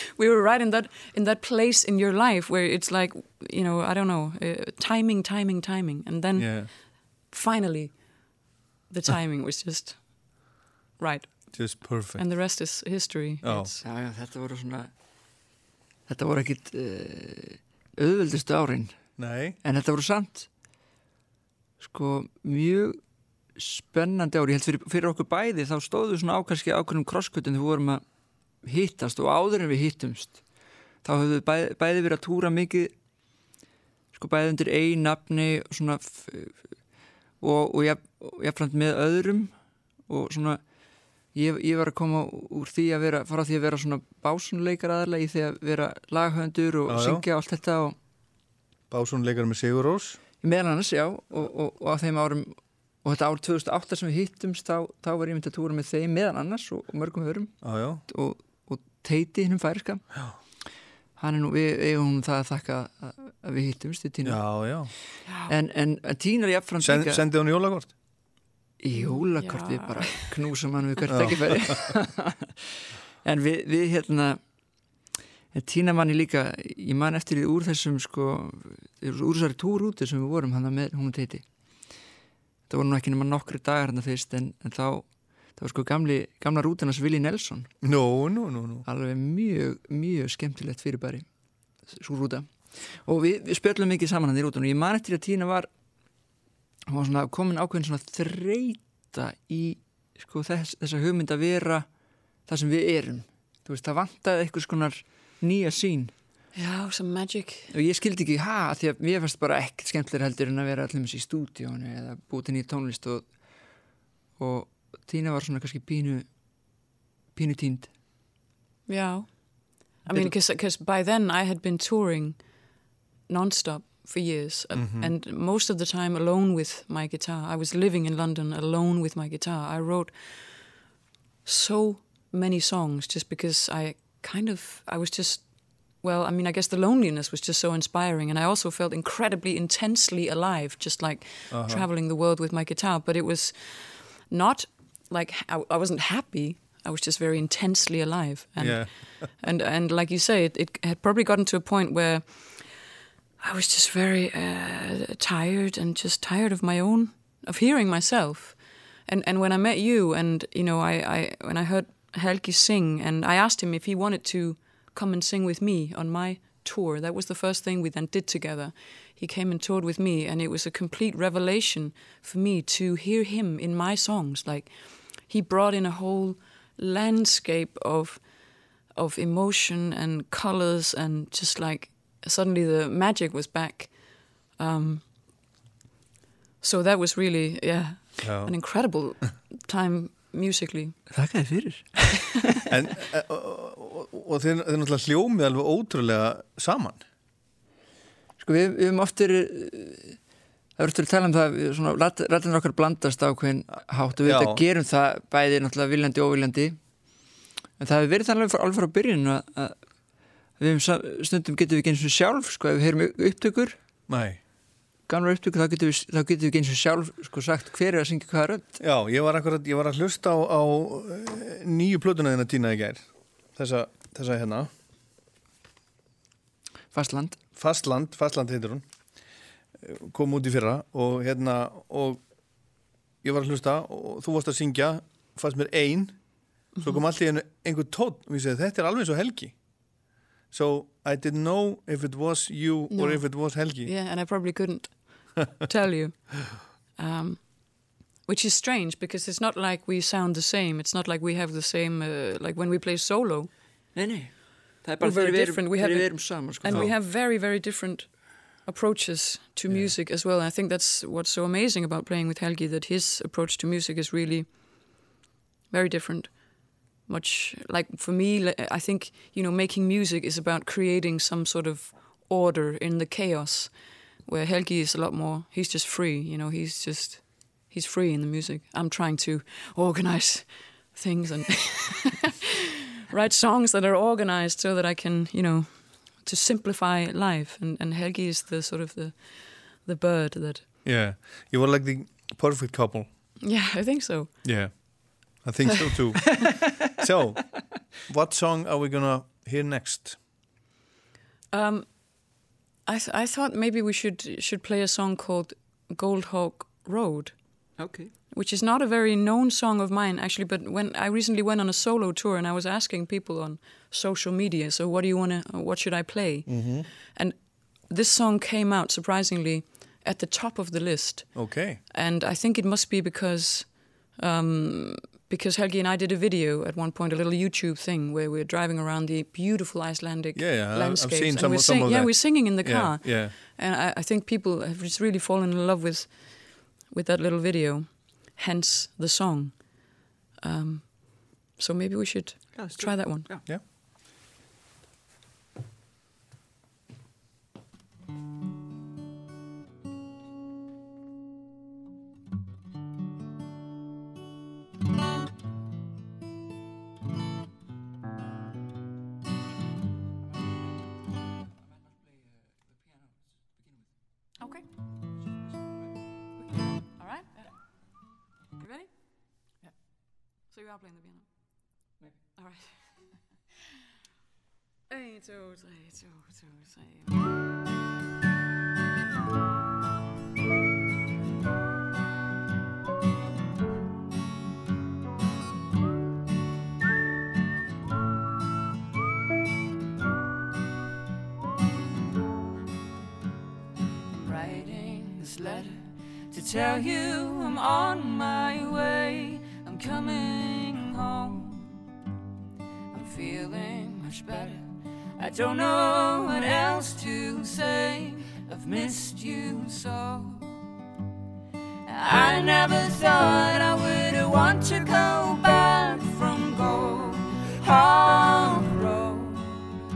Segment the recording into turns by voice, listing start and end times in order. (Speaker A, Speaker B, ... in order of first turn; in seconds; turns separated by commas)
Speaker A: 0.2-13.8, Speaker B: 6.4-6.7, Speaker B: 11.5-12.2, Speaker B: 13.4-13.7, Speaker C: 13.8-14.9, Speaker C: 16.1-18.9, Speaker B: 19.2-19.6, Speaker C: 19.6-20.5, Speaker C: 21.8-23.0, Speaker C: 23.5-28.0, Speaker C: 28.6-30.5, Speaker C: 31.0-33.0, Speaker C: 34.1-36.7, Speaker C: 37.4-39.5, Speaker C: 40.1-40.6, Speaker C: 41.3-48.0, Speaker B: 46.9-47.2, Speaker B: 48.9-50.2, Speaker C: 50.4-60.1, Speaker B: 57.6-58.0, Speaker C: 61.2-64.6, Speaker B: 64.2-64.9, Speaker A: 65.2-65.5, Speaker C: 65.5-67.2, Speaker B: 66.8-67.9, Speaker C: 68.8-72.7, Speaker A: 68.9-70.3, Speaker B: 71.1-71.9, Speaker C: 73.2-74.4, Speaker C: 75.5-81.9, Speaker C: 82.7-87.7, Speaker B: 87.8-88.8, Speaker C: 88.9-91.3, Speaker C: 91.8-95.7, Speaker C: 96.9-101.9, Speaker C: 102.5-106.1, Speaker A: 106.5-107.7, Speaker C: 107.7-116.4, Speaker C: 117.3-117.9, Speaker A: 118.9-122.8, Speaker A: 123.3-130.8, Speaker B: 124.7-125.1, Speaker A: 131.4-185.4, Speaker B: 141.5-141.9, Speaker B: 148.6-149.3, Speaker A: 186.6-191.0, Speaker B: 188.2-188.6, Speaker C: 191.1-192.4, Speaker B: 192.7-197.0, Speaker C: 198.4-200.2, Speaker C: 200.8-207.2, Speaker B: 204.2-204.6, Speaker C: 207.8-209.8, Speaker C: 210.6-213.8, Speaker B: 214.1-214.4, Speaker C: 215.1-218.7, Speaker B: 218.8-224.7, Speaker C: 226.9-227.4, Speaker B: 227.6-228.8, Speaker B: 229.8-232.2, Speaker B: 233.2-243.9, Speaker A: 236.8-237.0, Speaker A: 242.9-253.5, Speaker C: 253.9-256.9, Speaker A: 255.0-265.0, Speaker B: 256.7-256.9, Speaker B: 259.7-259.9, Speaker A: 265.7-282.3, Speaker A: 283.1-290.6, Speaker B: 290.8-293.1, Speaker A: 293.4-294.9, Speaker B: 294.4-300.2, Speaker A: 301.5-307.8, Speaker C: 307.8-308.1, Speaker A: 308.3-343.3, Speaker B: 316.5-316.9, Speaker B: 321.4-321.8, Speaker B: 330.4-333.3, Speaker C: 342.6-343.4, Speaker A: 367.0-367.4, Speaker A: 368.6-368.9, Speaker A: 370.5-371.3, Speaker A: 372.4-372.7, Speaker A: 374.9-377.1, Speaker D: 394.2-401.8, Speaker D: 402.9-410.5, Speaker D: 411.9-419.6